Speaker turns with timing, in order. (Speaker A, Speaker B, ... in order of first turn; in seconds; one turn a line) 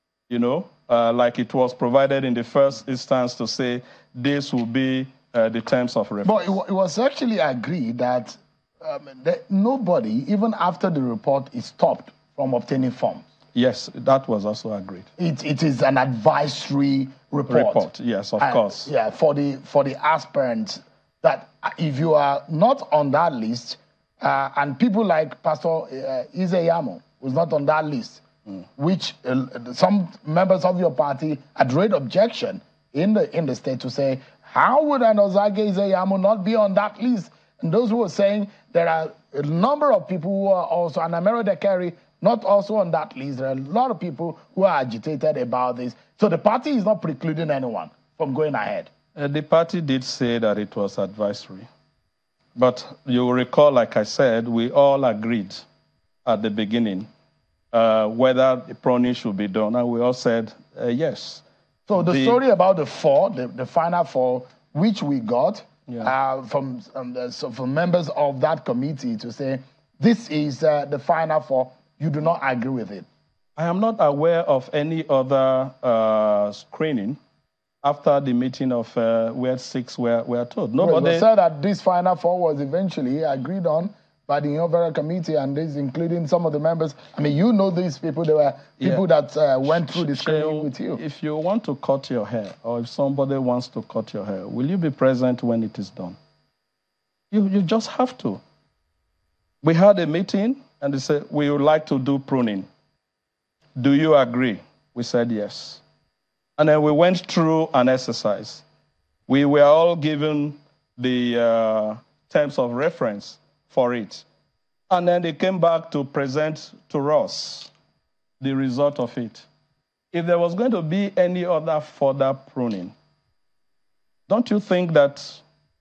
Speaker A: 0.3-6.6
Speaker B: 6.2-13.2
Speaker A: 13.5-15.1
Speaker B: 15.2-17.9
Speaker A: 17.5-18.9
Speaker B: 18.4-28.2
Speaker B: 28.8-48.9
Speaker A: 49.1-51.7
Speaker A: 52.6-55.6
Speaker A: 56.2-57.1
Speaker A: 57.7-61.4
Speaker B: 61.9-73.1
Speaker A: 62.1-62.4
Speaker A: 73.6-77.2
Speaker A: 77.8-81.2
Speaker B: 80.8-91.0
Speaker A: 89.6-96.2
Speaker A: 97.3-98.4
Speaker A: 99.6-102.7
Speaker A: 103.8-105.8
Speaker A: 106.6-108.7
Speaker A: 109.3-114.3
Speaker A: 114.9-117.7
Speaker A: 118.4-119.5
Speaker A: 120.1-122.9
Speaker A: 124.3-125.4